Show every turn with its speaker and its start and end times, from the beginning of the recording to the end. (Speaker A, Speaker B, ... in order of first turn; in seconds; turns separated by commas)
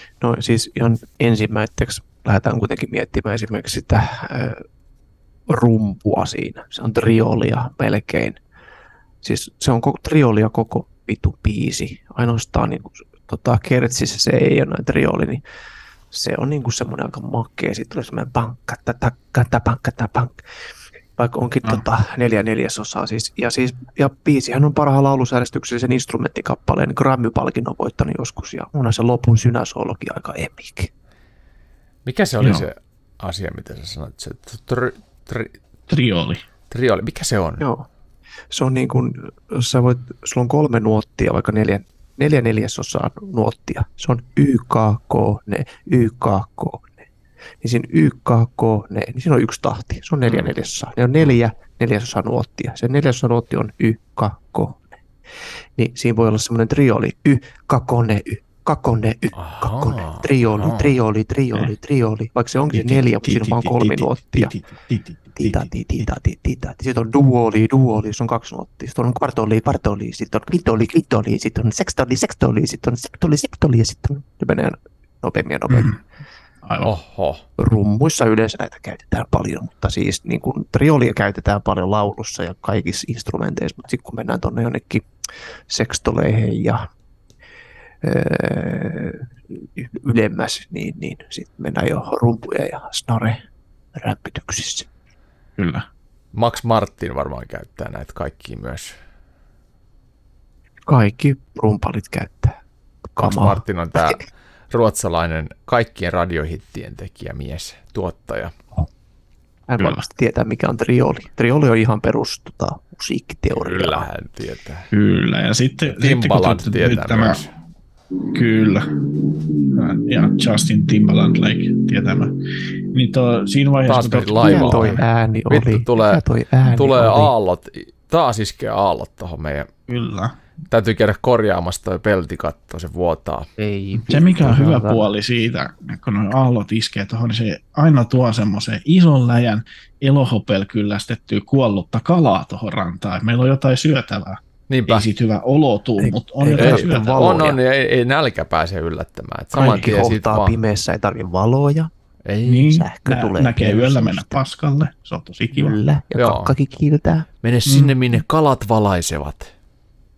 Speaker A: 0.2-4.6, Speaker A: 5.5-8.4, Speaker A: 9.2-15.4, Speaker A: 16.1-20.4, Speaker A: 21.2-30.9, Speaker B: 32.0-35.5, Speaker C: 32.4-32.7, Speaker C: 35.9-36.4, Speaker B: 36.7-37.6, Speaker A: 37.6-37.9, Speaker A: 38.5-47.1, Speaker A: 47.6-55.0, Speaker A: 55.8-64.5, Speaker B: 59.4-60.9, Speaker C: 62.7-65.7, Speaker A: 65.3-76.0, Speaker C: 75.7-76.0, Speaker C: 76.6-76.9, Speaker B: 76.8-77.4, Speaker A: 77.6-85.0, Speaker A: 85.7-86.9, Speaker A: 88.0-93.4, Speaker A: 93.9-94.9, Speaker C: 95.6-95.9, Speaker B: 96.3-99.0, Speaker A: 100.8-102.6, Speaker A: 103.1-104.2, Speaker B: 103.2-108.5, Speaker A: 109.7-114.1, Speaker B: 113.5-114.9, Speaker C: 114.9-117.5, Speaker B: 115.9-117.5, Speaker C: 118.3-119.0, Speaker C: 119.6-125.0, Speaker B: 123.9-129.7, Speaker A: 124.4-127.3, Speaker C: 129.9-130.4, Speaker B: 130.7-133.5, Speaker A: 133.6-135.1, Speaker C: 134.0-147.4, Speaker B: 144.7-145.1, Speaker A: 146.0-147.6, Speaker B: 146.6-150.6, Speaker A: 149.5-151.9, Speaker B: 152.2-152.8, Speaker C: 152.4-155.8, Speaker A: 152.7-154.4, Speaker A: 155.5-157.2, Speaker B: 156.1-156.5, Speaker B: 157.4-159.5, Speaker C: 157.7-157.9